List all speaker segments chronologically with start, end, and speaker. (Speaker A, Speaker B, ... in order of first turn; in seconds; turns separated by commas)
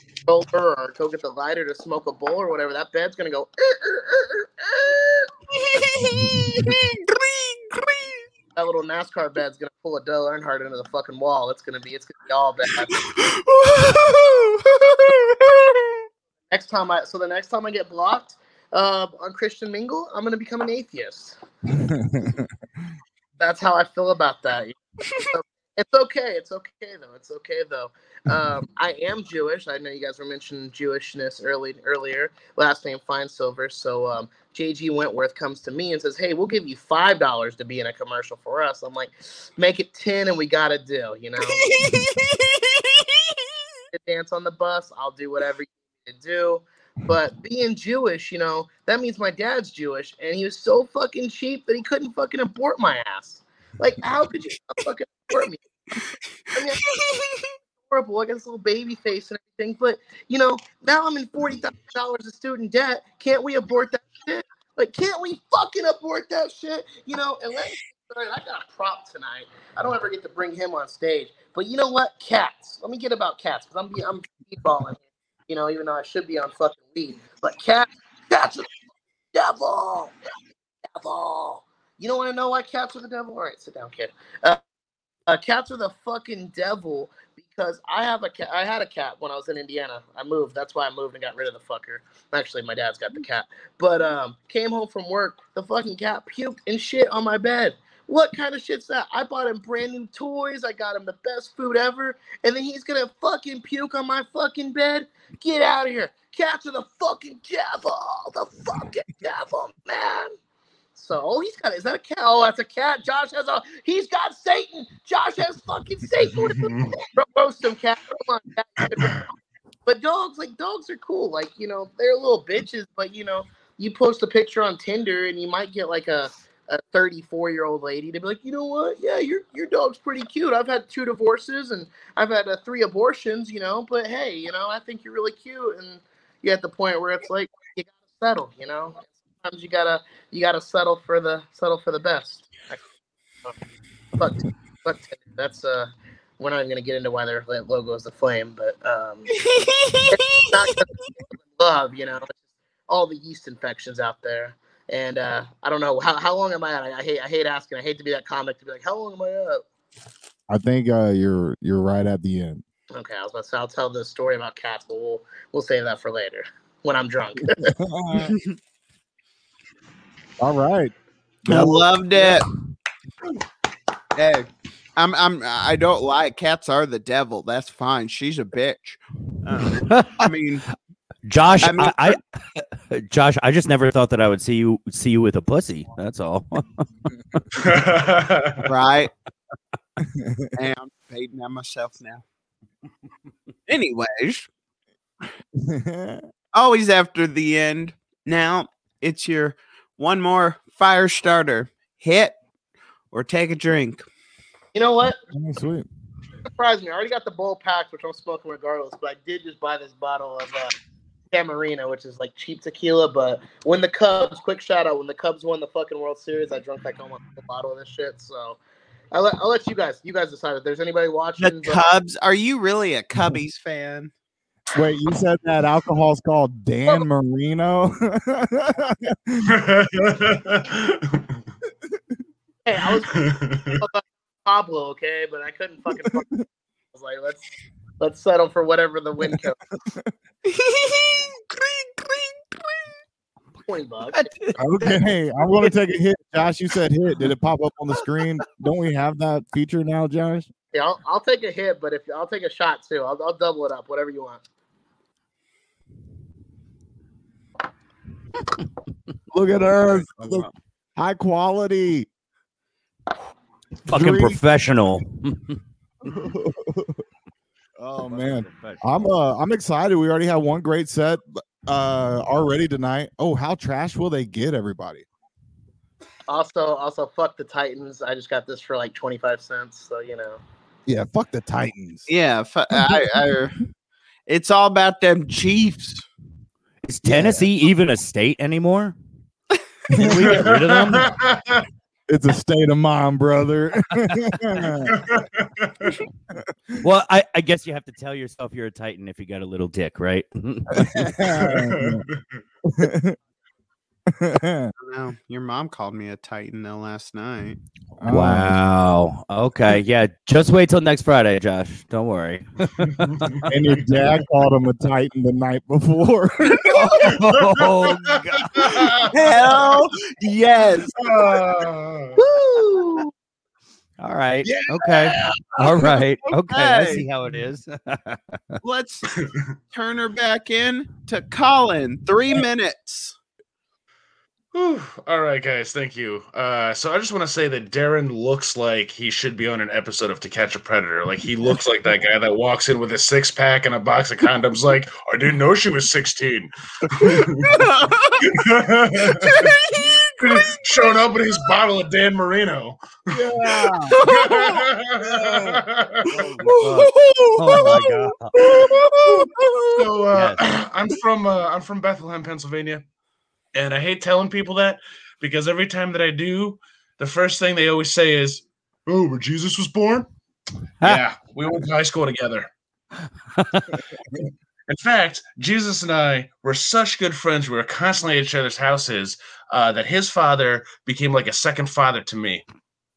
Speaker A: 0.3-5.3, Speaker B: 5.6-8.2, Speaker A: 8.6-12.9, Speaker B: 13.0-16.0, Speaker A: 16.5-21.4, Speaker C: 21.7-22.5, Speaker A: 23.4-41.6, Speaker B: 41.7-43.0, Speaker A: 43.9-55.6, Speaker A: 56.5-56.8, Speaker B: 56.9-57.5, Speaker A: 57.9-78.7, Speaker A: 79.3-80.2, Speaker A: 81.0-84.6, Speaker A: 85.3-110.3, Speaker A: 111.0-119.3, Speaker D: 116.4-117.0, Speaker D: 118.8-119.3, Speaker A: 119.9-142.8, Speaker A: 144.2-149.3, Speaker B: 149.4-150.8, Speaker A: 150.1-150.9, Speaker A: 151.5-159.6, Speaker C: 160.5-162.6, Speaker A: 162.9-167.6, Speaker C: 167.5-168.3, Speaker B: 168.1-168.6, Speaker C: 170.4-172.2, Speaker B: 171.5-172.5, Speaker B: 174.2-180.7, Speaker E: 179.8-180.3, Speaker E: 181.3-187.5, Speaker B: 181.6-182.2, Speaker D: 187.5-188.7, Speaker B: 188.6-189.1, Speaker C: 190.0-190.5, Speaker B: 190.6-192.2, Speaker B: 193.7-194.5, Speaker C: 195.6-196.3, Speaker B: 196.5-202.4, Speaker B: 203.1-204.1, Speaker A: 204.7-205.2, Speaker C: 205.3-205.9, Speaker A: 206.6-210.7, Speaker A: 211.3-218.6, Speaker A: 219.1-221.9, Speaker B: 221.4-224.1, Speaker C: 224.8-229.5, Speaker D: 229.4-231.3, Speaker A: 232.7-236.3, Speaker D: 233.1-233.8, Speaker C: 236.2-236.4, Speaker A: 236.9-237.4, Speaker A: 238.0-239.6, Speaker C: 239.2-240.1, Speaker B: 240.4-242.9, Speaker A: 243.7-244.2, Speaker B: 244.1-245.7, Speaker C: 244.6-250.5, Speaker A: 250.7-254.4, Speaker C: 259.3-262.1, Speaker E: 260.0-260.5, Speaker E: 263.9-265.6, Speaker C: 263.9-264.4, Speaker C: 266.0-267.0, Speaker C: 267.8-275.1, Speaker E: 268.0-268.9, Speaker A: 276.3-280.4, Speaker C: 280.9-282.1, Speaker B: 282.1-283.6, Speaker C: 282.7-283.2, Speaker B: 284.3-286.0, Speaker E: 286.9-289.0, Speaker C: 287.1-287.5, Speaker C: 290.0-290.4, Speaker E: 290.0-291.1, Speaker D: 290.0-291.6, Speaker C: 292.1-294.9, Speaker D: 294.9-295.9, Speaker E: 296.8-301.1, Speaker C: 300.7-302.1, Speaker D: 301.3-302.2, Speaker C: 302.6-303.2, Speaker C: 304.1-304.7, Speaker B: 304.8-307.6, Speaker C: 308.0-308.6, Speaker E: 308.1-314.1, Speaker D: 313.0-314.1, Speaker C: 313.5-316.9, Speaker B: 316.6-317.1, Speaker E: 316.9-319.1, Speaker D: 317.2-319.1, Speaker B: 319.1-320.9, Speaker D: 320.9-322.2, Speaker A: 322.4-323.1, Speaker E: 324.0-328.6, Speaker C: 324.5-325.3, Speaker B: 326.5-327.1, Speaker B: 328.6-329.1, Speaker D: 329.1-329.4, Speaker B: 329.7-333.1, Speaker D: 334.5-347.5, Speaker B: 347.0-348.4, Speaker D: 348.3-349.5, Speaker B: 349.1-350.6, Speaker D: 350.2-353.2, Speaker C: 353.1-354.0, Speaker B: 353.9-354.6, Speaker D: 354.0-356.5, Speaker C: 355.1-355.4, Speaker C: 356.2-356.5, Speaker E: 356.5-358.3, Speaker B: 356.5-360.0, Speaker D: 359.8-362.8, Speaker E: 360.1-360.4, Speaker D: 363.5-370.1, Speaker D: 370.8-372.5, Speaker E: 373.4-373.7, Speaker D: 374.1-382.4